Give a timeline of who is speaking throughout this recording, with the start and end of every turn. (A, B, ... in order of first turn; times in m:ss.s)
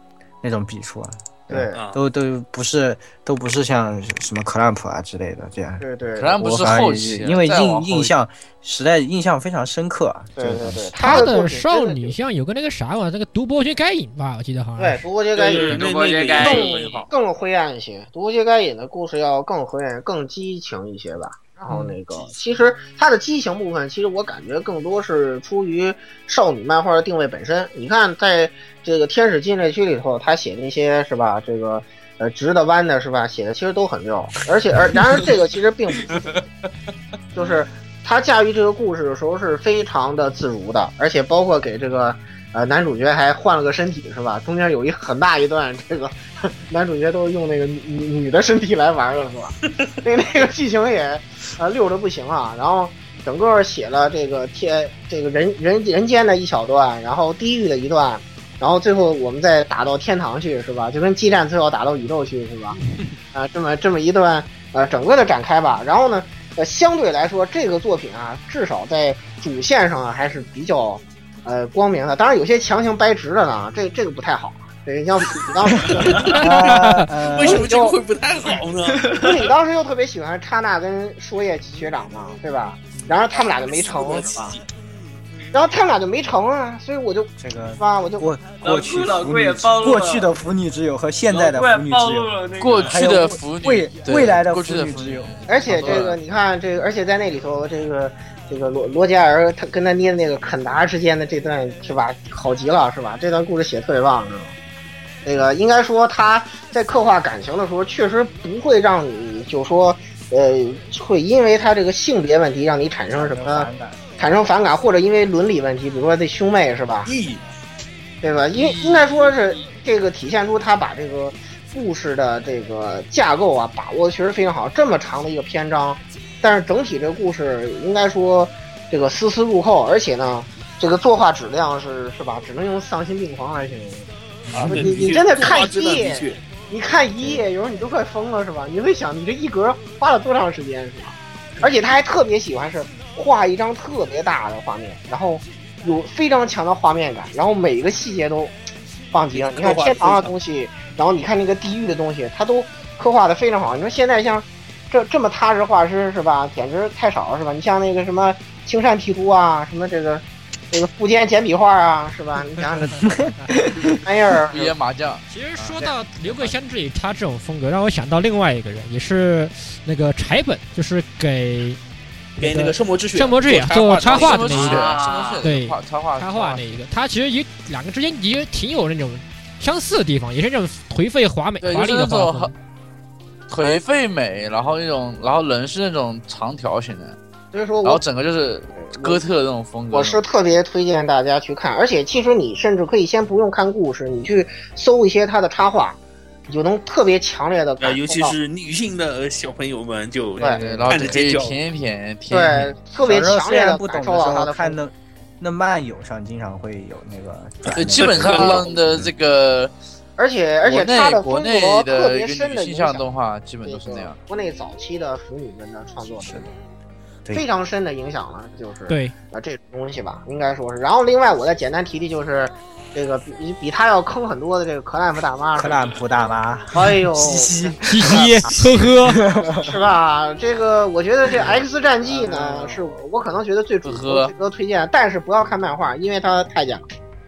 0:00.4-0:05.8 A
0:01.5-0:01.8 B
0:05.8-0:06.8 B
0:06.2-0:08.1 C
0:06.4-0:11.2 A
0:10.4-0:12.2 B
0:11.0-0:15.0 D
0:14.8-0:15.8 B
0:15.4-0:17.1 E
0:15.6-0:17.0 F
0:16.4-0:36.4 B
0:37.4-1:02.8 B
1:03.3-1:16.4 B
1:16.3-1:17.6 A
1:16.3-1:17.1 D
1:17.2-1:19.1 E
1:17.4-1:18.0 B
1:19.0-1:19.3 F
1:19.1-1:24.6 B
1:23.9-1:24.3 F
1:24.3-1:24.6 E
1:25.5-1:28.3 B
1:27.4-1:32.3 A
1:28.6-1:30.3 F
1:31.3-1:33.2 F
1:32.6-1:36.2 C
1:32.8-1:35.9 A
1:35.5-1:44.6 B
1:45.2-1:57.1 B
1:53.1-1:54.2 A
1:57.0-1:57.4 E
1:58.2-2:14.1 B
2:14.5-2:16.4 E
2:14.5-2:14.8 A
2:14.6-2:28.5 B
2:29.1-2:43.4 B
2:29.3-2:30.3 E
2:42.9-2:43.9 A
2:44.0-2:44.7 B
2:44.5-2:46.5 C
2:45.3-2:51.8 D
2:52.4-3:02.5 D
2:52.4-2:54.8 E
2:53.7-2:56.6 C
2:54.6-2:55.4 F
3:01.6-3:02.5 C
3:03.5-3:07.2 C
3:07.5-3:08.0 B
3:07.8-3:10.2 C
3:08.7-3:09.2 B
3:09.9-3:18.4 B
3:17.8-3:21.6 E
3:20.4-3:20.9 B
3:20.6-3:22.8 C
3:22.3-3:24.8 B
3:23.0-3:29.1 A
3:27.7-3:29.7 C
3:27.9-3:28.7 E
3:28.2-3:28.7 B
3:30.2-3:33.1 B
3:30.6-3:34.2 C
3:33.6-3:36.5 B
3:36.2-3:36.4 A
3:37.3-3:45.8 B
3:38.9-3:39.2 D
3:45.6-3:48.3 A
3:46.7-3:48.8 B
3:47.8-3:49.2 D
3:49.0-3:49.7 A
3:49.4-3:56.8 B
3:51.3-3:52.8 A
3:53.8-3:54.3 C